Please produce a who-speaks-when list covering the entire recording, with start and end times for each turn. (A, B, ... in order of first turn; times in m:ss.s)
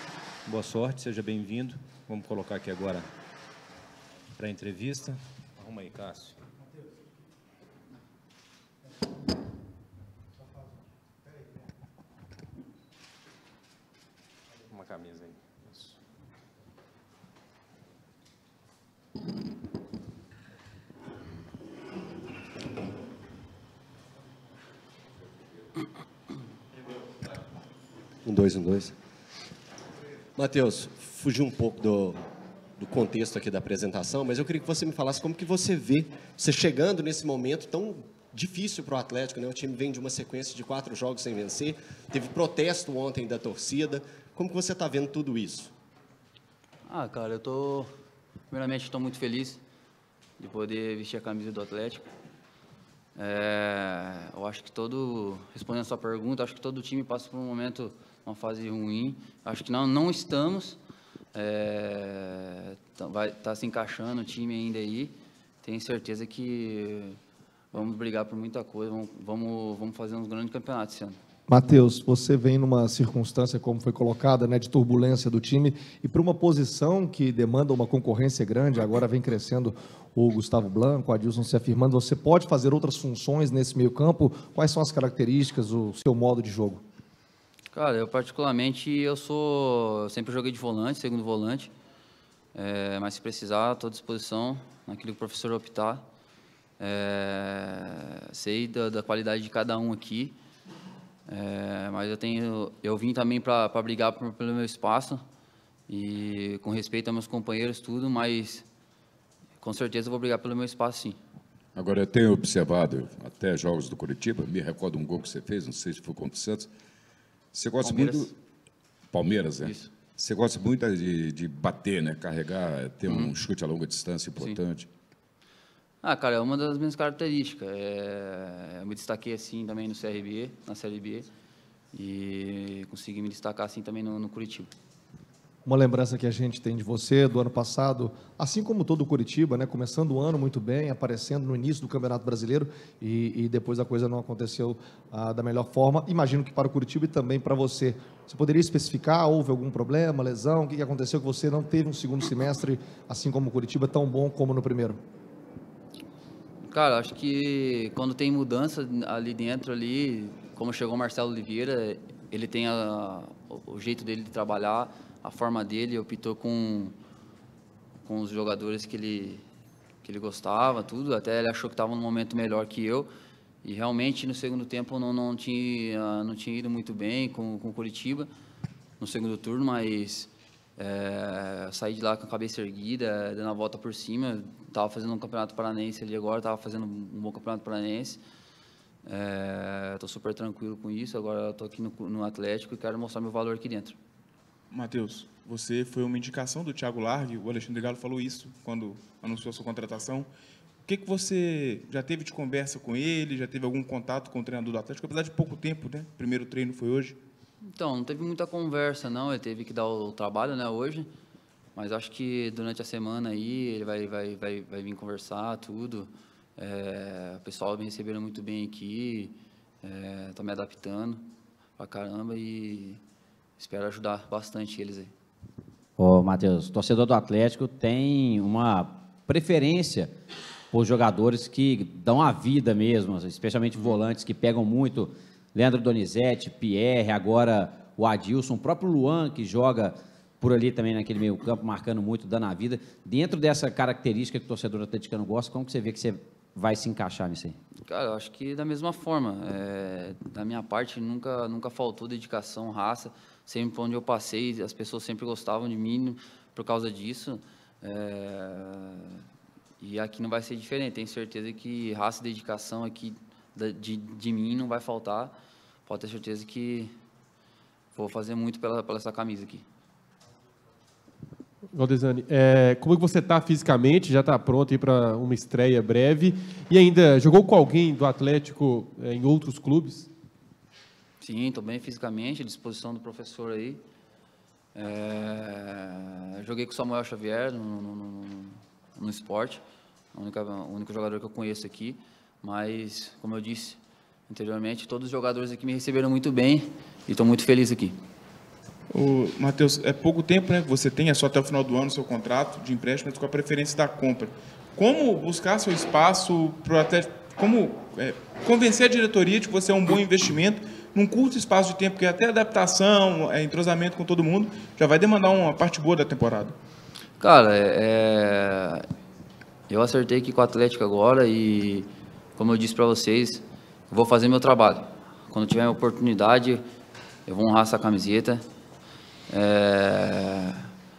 0:00.4-0:03.1 A
0:04.4-0:06.4 A
0:14.7-0:15.9 A
0:28.2-0:29.0 B
0:30.4-0:32.2 B
0:32.8-0:45.7 B
0:46.9-0:47.9 C
0:48.5-0:49.6 C
0:50.4-0:52.0 C
0:53.2-1:00.8 C
1:01.3-1:07.2 C
1:07.7-1:11.2 C
1:11.5-1:26.8 D
1:27.7-1:31.7 C
1:32.5-1:36.0 C
1:36.8-1:40.4 C
1:41.3-1:45.2 C
1:45.9-1:48.6 C
1:49.6-1:51.2 C
1:51.7-1:56.7 E
1:57.5-1:58.3 E
1:57.8-1:58.3 C
1:59.1-2:04.9 E
1:59.6-1:59.9 C
2:03.1-2:03.3 C
2:06.0-2:11.3 C
2:11.9-2:14.7 C
2:15.6-2:35.0 D
2:36.6-2:46.9 C
2:48.0-2:49.4 C
2:50.0-2:53.1 C
2:53.6-2:58.3 C
2:59.0-3:08.2 C
3:09.0-3:14.0 C
3:14.7-3:20.3 F
3:20.8-3:27.2 F
3:27.6-3:31.1 C
3:31.7-3:41.2 C
3:41.8-3:43.0 C
3:43.6-3:45.1 C
3:46.0-3:50.1 G
3:50.7-4:07.6 G
4:07.9-4:19.2 C
4:19.8-4:25.3 C
4:25.8-4:26.9 C
4:27.9-4:29.6 C
4:31.7-4:40.1 H
4:41.2-4:43.8 C
4:44.7-4:49.6 C
4:50.1-4:58.0 C
4:58.9-5:16.6 F
5:17.2-5:18.8 C
5:19.7-5:26.6 C
5:27.2-5:28.4 C
5:29.3-5:30.7 C